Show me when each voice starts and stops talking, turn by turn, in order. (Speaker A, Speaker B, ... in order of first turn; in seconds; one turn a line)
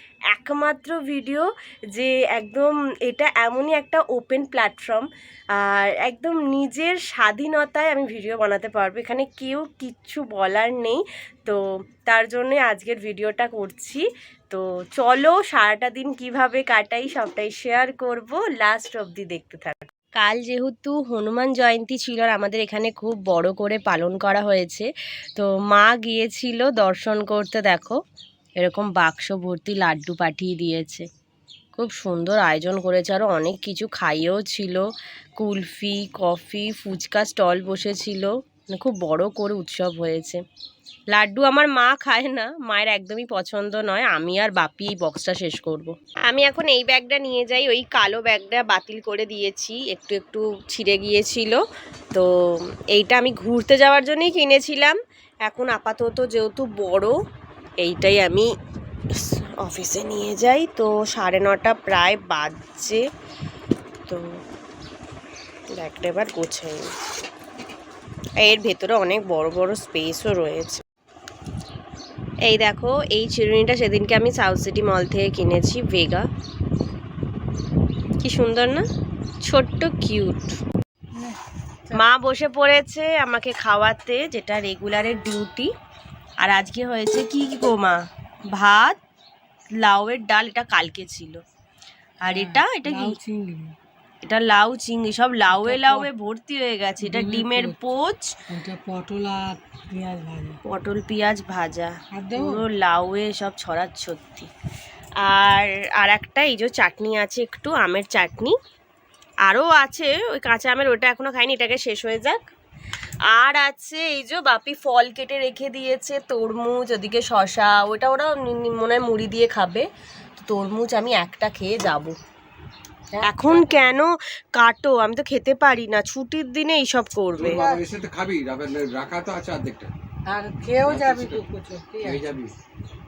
Speaker A: 0.3-28.0
Speaker A: 28.6-31.1
Speaker A: 31.8-34.8
Speaker A: 35.4-40.4
Speaker A: 41.1-57.2
Speaker A: 57.8-58.5
Speaker A: 59.1-63.0
Speaker A: 65.7-66.9
Speaker A: 68.4-70.8
Speaker A: 72.5-76.3
Speaker A: 78.2-78.9
Speaker A: 79.4-80.6
Speaker B: 81.1-82.0
Speaker A: 81.9-85.7
Speaker A: 86.4-89.0
Speaker A: 89.8-91.4
Speaker A: 92.2-93.2
Speaker B: 92.2-93.8
Speaker A: 94.2-98.4
Speaker B: 95.5-96.1
Speaker B: 97.0-97.8
Speaker B: 98.5-100.6
Speaker A: 100.7-104.5
Speaker B: 102.1-102.7
Speaker A: 105.2-108.6
Speaker A: 109.5-112.4
Speaker A: 113.3-122.2
Speaker B: 123.1-123.9
Speaker A: 123.2-127.7
Speaker C: 127.4-129.9
Speaker B: 127.5-127.9
Speaker B: 130.2-132.2
Speaker C: 130.8-131.4
Speaker C: 132.0-132.5